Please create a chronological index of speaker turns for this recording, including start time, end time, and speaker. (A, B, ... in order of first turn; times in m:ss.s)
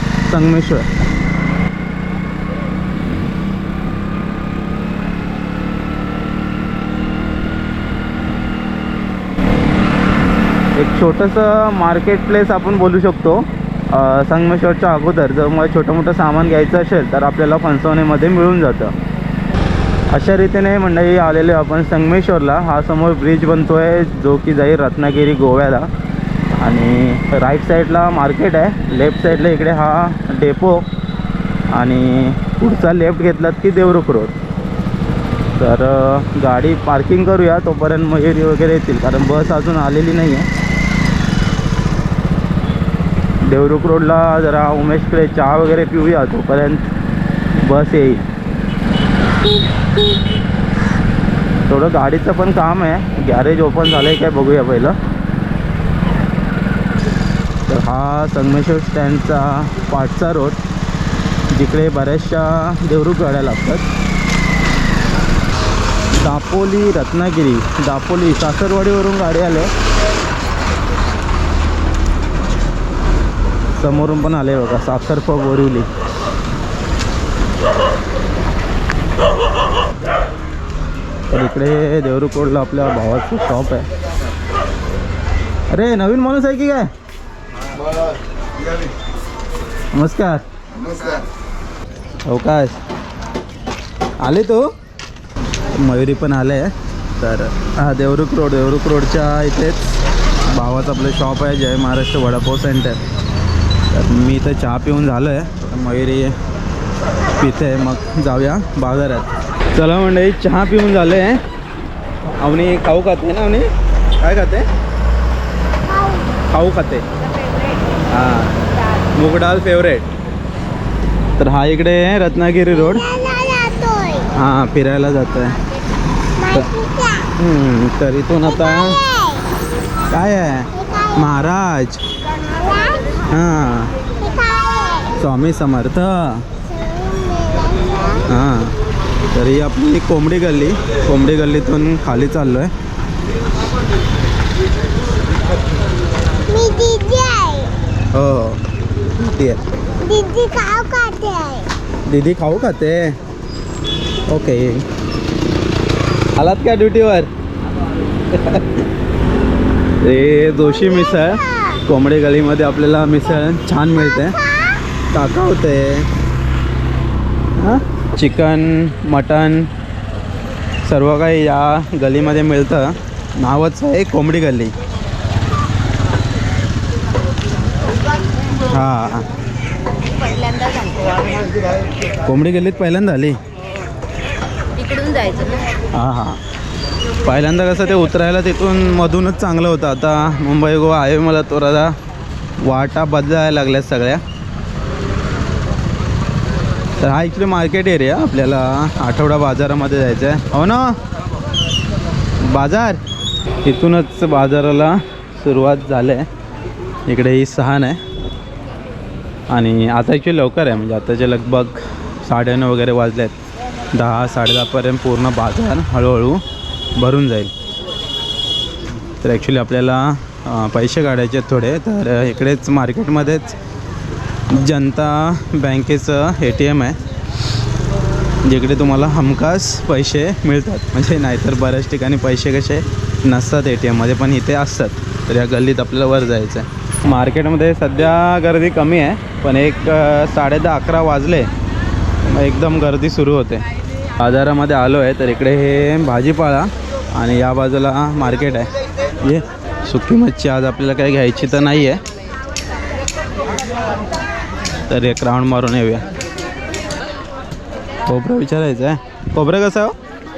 0:00.2-0:00.8 A
0:10.8-0:18.9 A
0:20.1-0:25.9 A
0:26.5-0:30.8 A
0:31.7-0:34.3 A
0:35.6-0:40.5 A
0:43.4-0:46.9 A
0:47.6-0:48.2 A
0:51.7-0:55.0 A
0:57.7-1:00.6 A
1:01.5-1:03.8 A
1:06.2-1:09.7 A
1:13.8-1:15.9 A
1:21.3-1:23.9 A
1:25.7-1:26.9 A
1:29.9-1:30.4 A
1:32.3-1:32.8 A
1:34.2-1:34.6 A
1:35.7-1:40.0 A
1:40.5-1:43.0 A
1:43.9-1:46.3 A
1:47.4-1:51.4 A
1:52.4-1:53.7 A
1:54.2-1:54.6 A
1:56.5-1:57.0 A
1:58.1-1:58.5 A
1:59.1-2:00.1 A
2:01.4-2:03.1 A
2:03.2-2:04.2 B
2:04.4-2:05.6 A
2:06.4-2:06.7 A
2:06.7-2:07.2 B
2:07.4-2:09.1 A
2:10.1-2:12.0 A
2:13.3-2:13.9 A
2:14.3-2:15.0 B
2:15.1-2:16.4 A
2:16.8-2:18.1 B
2:18.2-2:18.7 A
2:19.3-2:22.7 A
2:26.5-2:27.7 B
2:28.1-2:28.6 A
2:29.2-2:29.6 A
2:30.0-2:31.7 B
2:32.0-2:33.1 A
2:34.3-2:34.8 A
2:36.4-2:37.3 A
2:38.3-2:38.6 A
2:40.0-2:44.4 A
2:45.1-2:46.1 A
2:47.6-2:49.7 A
2:50.8-2:54.7 A
2:58.7-2:59.2 A
3:00.2-3:01.4 C
3:02.2-3:03.4 A
3:04.8-3:05.6 C
3:05.9-3:06.4 A
3:07.2-3:11.9 A
3:12.6-3:14.2 A
3:17.0-3:21.0 A
3:22.4-3:23.0 A
3:23.6-3:26.2 A
3:27.1-3:28.0 A
3:29.5-3:33.3 A
3:33.9-3:36.4 A
3:37.0-3:37.5 A
3:39.1-3:43.6 A
3:44.5-3:47.0 A
3:48.4-4:01.5 A
4:02.3-4:03.6 A
4:04.2-4:08.7 A
4:09.2-4:12.0 A
4:14.9-4:16.0 A
4:18.0-4:19.9 A